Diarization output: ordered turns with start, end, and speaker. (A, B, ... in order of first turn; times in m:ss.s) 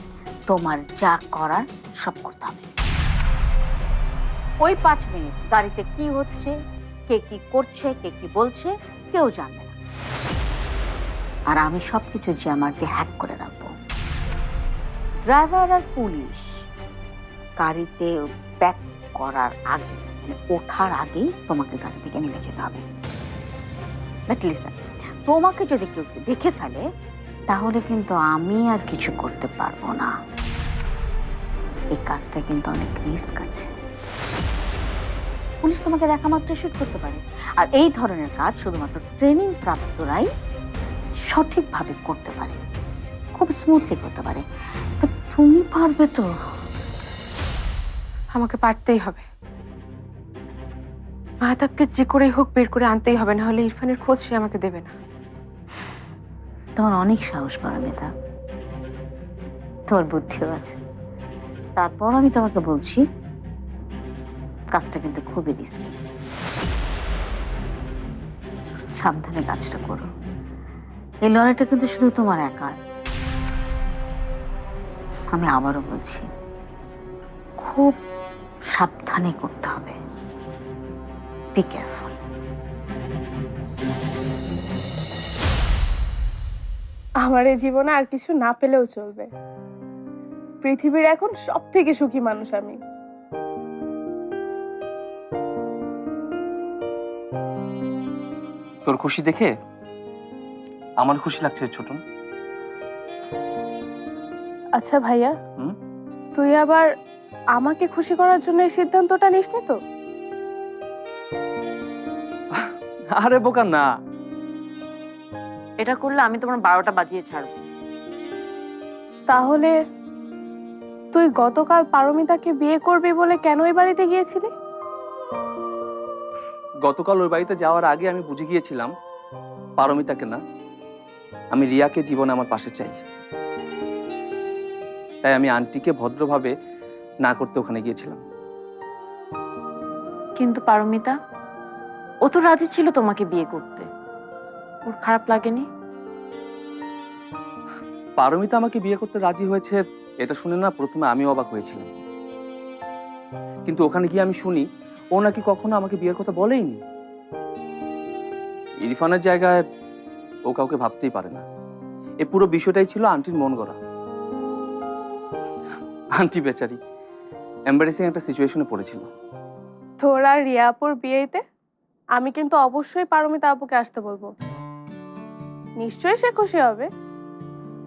0:00.5-0:02.7 A
0:04.6-0:06.5 A
0:07.1-0:09.7 A
0:11.5-0:13.7 A
0:15.2-0:16.6 A
0:17.6-0:22.8 A
0:24.3-0:26.8 A
0:27.5-0:30.1 A
0:31.9-0:33.7 A
0:35.6-0:40.3 A
0:41.3-0:42.6 A
0:43.4-0:44.4 A
0:45.0-0:46.2 A
0:48.3-0:49.2 B
0:51.4-0:54.9 B
0:56.8-0:58.1 A
0:59.9-1:00.8 A
1:01.8-1:03.0 A
1:04.7-1:06.0 A
1:09.0-1:10.1 A
1:11.3-1:12.8 A
1:15.3-1:16.3 A
1:17.6-1:18.0 A
1:18.7-1:20.0 A
1:21.5-1:22.2 A
1:27.2-1:29.3 C
1:30.6-1:32.8 C
1:38.8-1:39.5 D
1:41.0-1:42.0 D
1:44.8-1:45.3 C
1:46.3-1:46.8 C
1:47.6-1:49.8 C
1:52.5-1:53.8 D
1:55.8-1:57.5 E
1:59.3-1:59.7 C
2:01.1-2:04.5 C
2:06.8-2:08.9 D
2:09.8-2:10.4 D
2:11.5-2:13.0 D
2:15.2-2:16.5 D
2:17.2-2:18.2 D
2:20.4-2:21.1 E
2:22.2-2:23.9 E
2:24.9-2:25.6 E
2:28.2-2:32.0 D
2:33.7-2:34.6 D
2:35.1-2:36.8 D
2:38.8-2:39.6 D
2:40.5-2:41.4 D
2:42.2-2:43.8 D
2:46.2-2:46.8 D
2:47.7-2:49.1 D
2:50.0-2:51.4 C
2:52.2-2:54.3 C
2:55.8-2:56.9 C